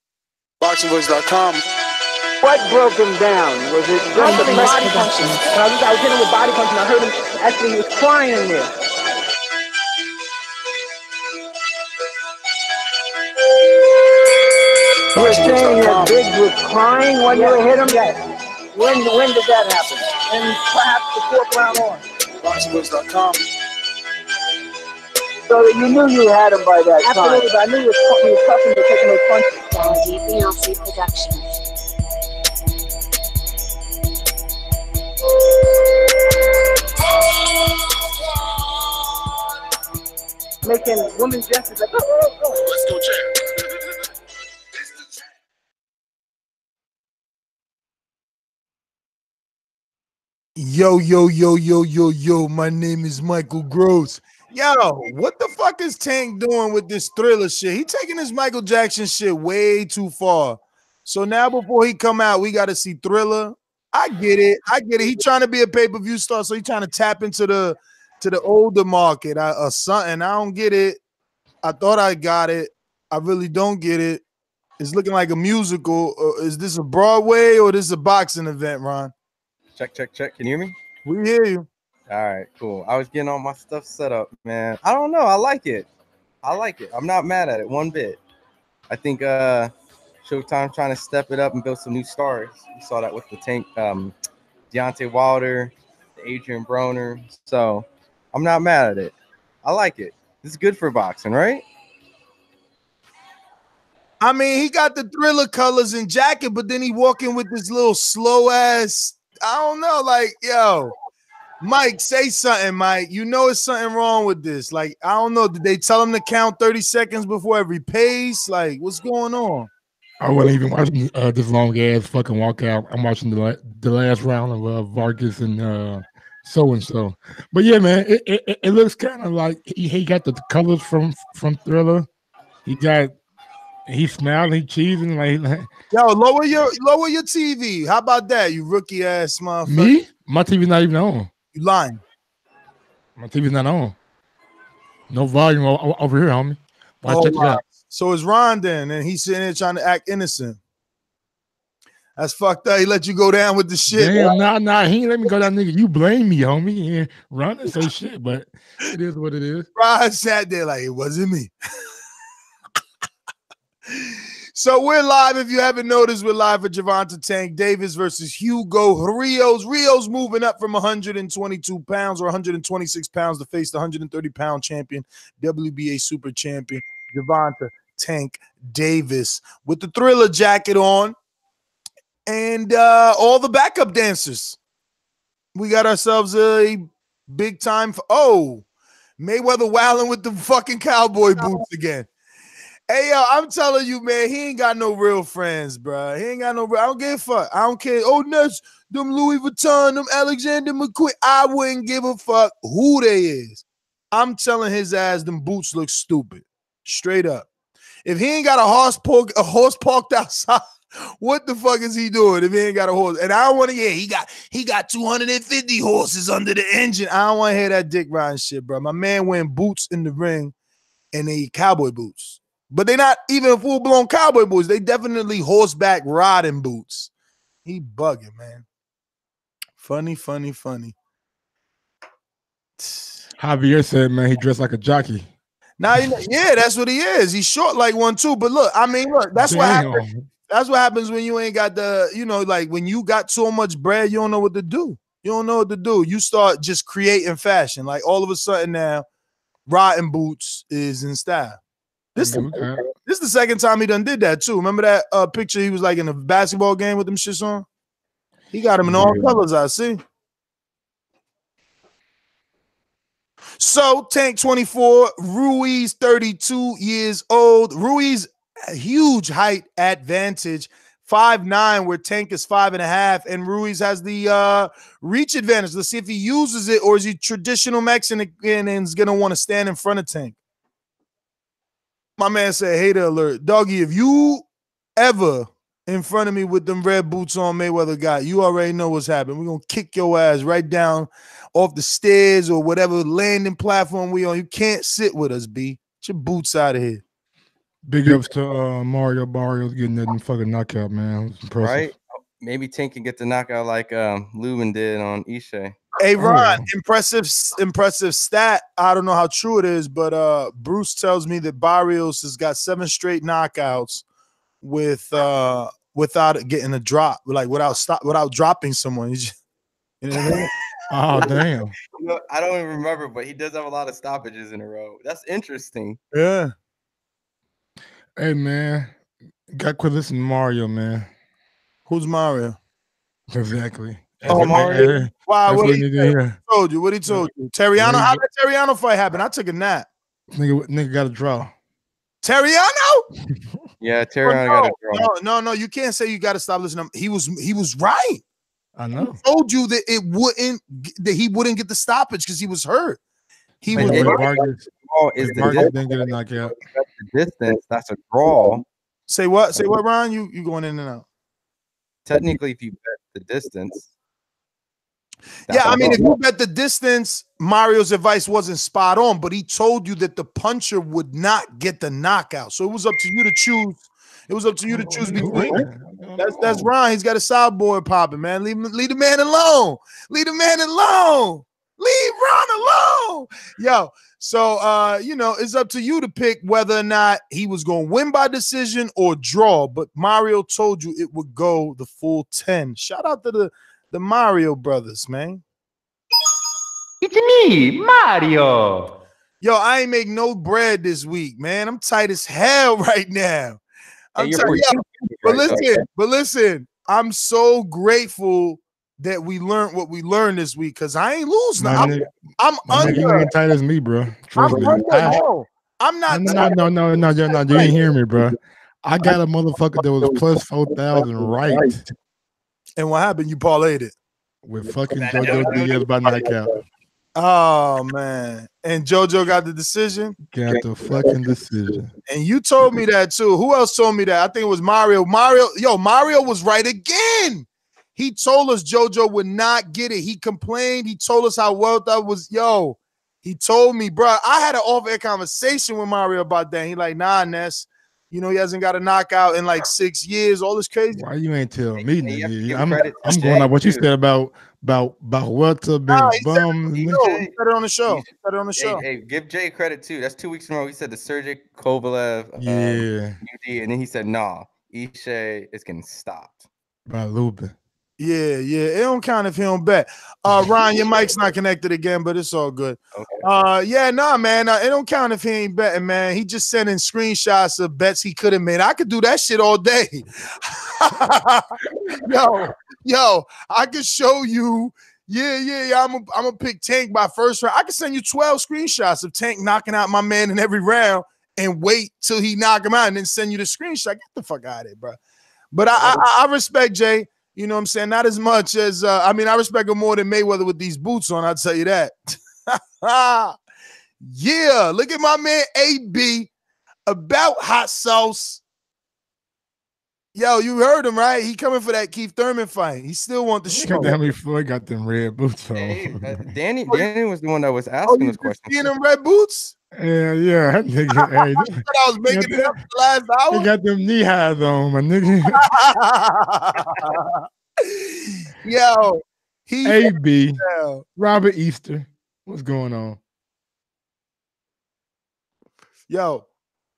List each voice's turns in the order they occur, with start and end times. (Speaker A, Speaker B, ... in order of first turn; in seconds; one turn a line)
Speaker A: 0.6-1.6
Speaker B: 2.4-8.7
Speaker A: 4.2-5.4
Speaker A: 15.2-16.2
Speaker B: 15.2-18.2
Speaker B: 18.7-22.0
Speaker A: 22.4-23.5
Speaker B: 25.5-29.7
Speaker C: 27.0-27.5
Speaker C: 29.7-31.5
Speaker B: 40.6-42.8
Speaker D: 50.6-71.0
Speaker D: 71.6-74.2
Speaker D: 74.8-79.1
Speaker E: 79.8-80.8
Speaker D: 81.0-81.7
Speaker E: 82.1-85.9
Speaker E: 86.4-88.2
Speaker E: 88.9-89.7
Speaker E: 90.2-94.1
Speaker E: 94.7-101.7
Speaker D: 104.2-110.9
Speaker D: 111.6-119.7
Speaker F: 120.2-132.1
Speaker F: 132.7-133.2
Speaker F: 133.9-135.7
Speaker D: 135.9-139.9
Speaker F: 139.7-141.3
Speaker D: 141.5-142.0
Speaker F: 143.2-144.0
Speaker F: 145.1-147.6
Speaker D: 147.1-150.6
Speaker D: 152.2-154.3
Speaker F: 153.9-159.7
Speaker D: 159.8-161.5
Speaker D: 163.9-181.2
Speaker D: 182.3-184.6
Speaker D: 185.6-188.6
Speaker D: 189.2-192.1
Speaker D: 192.9-207.5
Speaker D: 208.1-210.6
Speaker D: 211.2-220.5
Speaker D: 221.1-227.1
Speaker D: 227.7-228.6
Speaker D: 229.8-230.9
Speaker D: 232.8-233.2
Speaker F: 233.4-235.3
Speaker D: 235.8-249.1
Speaker F: 239.4-240.2
Speaker D: 249.7-251.6
Speaker D: 252.2-257.7
Speaker F: 252.2-252.8
Speaker D: 258.5-260.0
Speaker F: 258.8-259.4
Speaker D: 263.6-280.4
Speaker D: 282.2-284.5
Speaker D: 285.0-297.0
Speaker F: 297.9-301.9
Speaker E: 301.6-305.8
Speaker D: 306.0-314.0
Speaker F: 306.2-306.7
Speaker D: 314.6-319.3
Speaker D: 320.0-320.5
Speaker F: 320.9-321.8
Speaker E: 321.9-326.0
Speaker D: 326.1-326.5
Speaker F: 328.2-328.9
Speaker F: 329.5-331.1
Speaker D: 331.9-332.6
Speaker F: 333.3-336.4
Speaker E: 334.2-335.1
Speaker D: 334.3-339.9
Speaker F: 337.1-338.2
Speaker F: 340.3-341.5
Speaker D: 342.2-343.1
Speaker E: 343.8-345.1
Speaker D: 344.2-348.2
Speaker F: 348.8-349.2
Speaker D: 349.2-353.0
Speaker D: 353.6-354.2
Speaker F: 353.7-354.6
Speaker E: 353.8-358.6
Speaker F: 355.2-356.5
Speaker D: 359.1-361.1
Speaker E: 362.1-363.9
Speaker E: 365.5-366.1
Speaker D: 365.5-375.6
Speaker F: 374.7-376.7
Speaker E: 375.4-375.6
Speaker D: 376.2-395.4
Speaker E: 397.0-398.9
Speaker D: 399.4-403.6
Speaker D: 404.1-413.3
Speaker E: 404.2-405.6
Speaker F: 411.6-412.1
Speaker F: 412.7-415.2
Speaker D: 414.4-416.6
Speaker F: 416.1-421.8
Speaker D: 417.5-417.8
Speaker D: 422.8-423.9
Speaker F: 424.4-426.6
Speaker E: 425.1-425.6
Speaker D: 427.2-430.2
Speaker F: 430.3-431.9
Speaker D: 432.1-451.0
Speaker F: 450.9-457.0
Speaker E: 451.8-453.9
Speaker D: 455.9-458.8
Speaker E: 456.8-457.3
Speaker E: 457.9-466.4
Speaker F: 462.4-463.2
Speaker F: 466.9-467.5
Speaker D: 468.0-495.0
Speaker E: 472.9-473.2
Speaker D: 495.5-503.4
Speaker D: 504.0-506.3
Speaker D: 506.9-508.4
Speaker D: 510.1-514.0
Speaker F: 513.5-516.3
Speaker E: 515.5-518.7
Speaker D: 517.9-519.5
Speaker F: 519.8-522.6
Speaker D: 521.0-523.5
Speaker F: 523.3-525.4
Speaker D: 525.3-530.8
Speaker F: 529.6-530.4
Speaker F: 531.0-533.0
Speaker D: 535.9-536.3